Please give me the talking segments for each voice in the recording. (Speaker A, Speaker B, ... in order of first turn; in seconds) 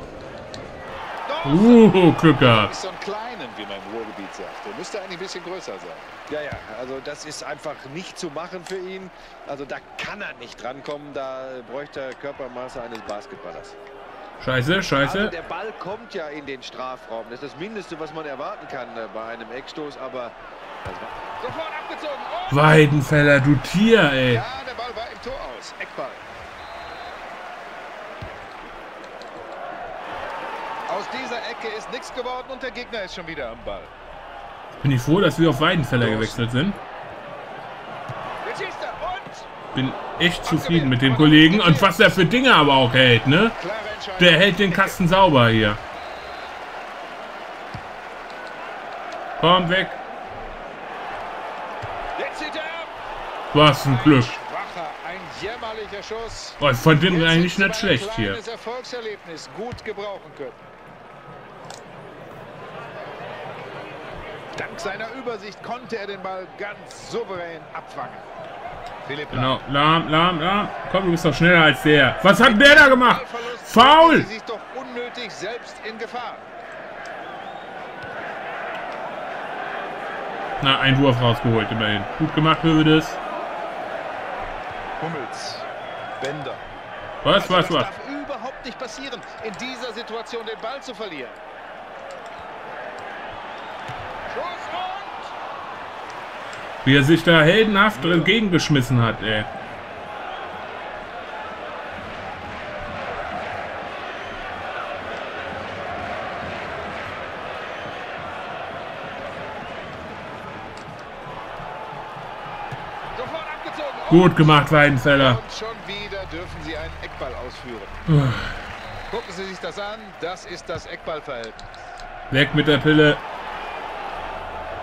Speaker A: 1.3-6.1, 21.4-22.9, 24.3-26.2, 30.9-33.9, 36.0-36.4, 38.4-39.5, 40.4-42.2, 43.5-45.0, 52.2-52.9, 53.8-60.6, 64.6-68.3, 69.0-69.6, 72.4-76.5, 85.0-86.6, 87.4-91.4, 94.3-95.3, 97.9-98.3, 113.1-117.9, 119.1-121.8
Speaker B: 1.4-2.7, 14.4-15.3, 22.5-24.4, 34.8-36.8, 39.7-43.6, 44.2-45.8, 49.4-50.0, 53.5-54.4, 56.6-58.4, 69.3-74.3, 80.6-83.2, 87.2-87.9, 96.8-99.5, 114.1-115.4, 118.1-118.6, 122.3-123.2
Speaker C: 6.3-13.8, 15.0-21.2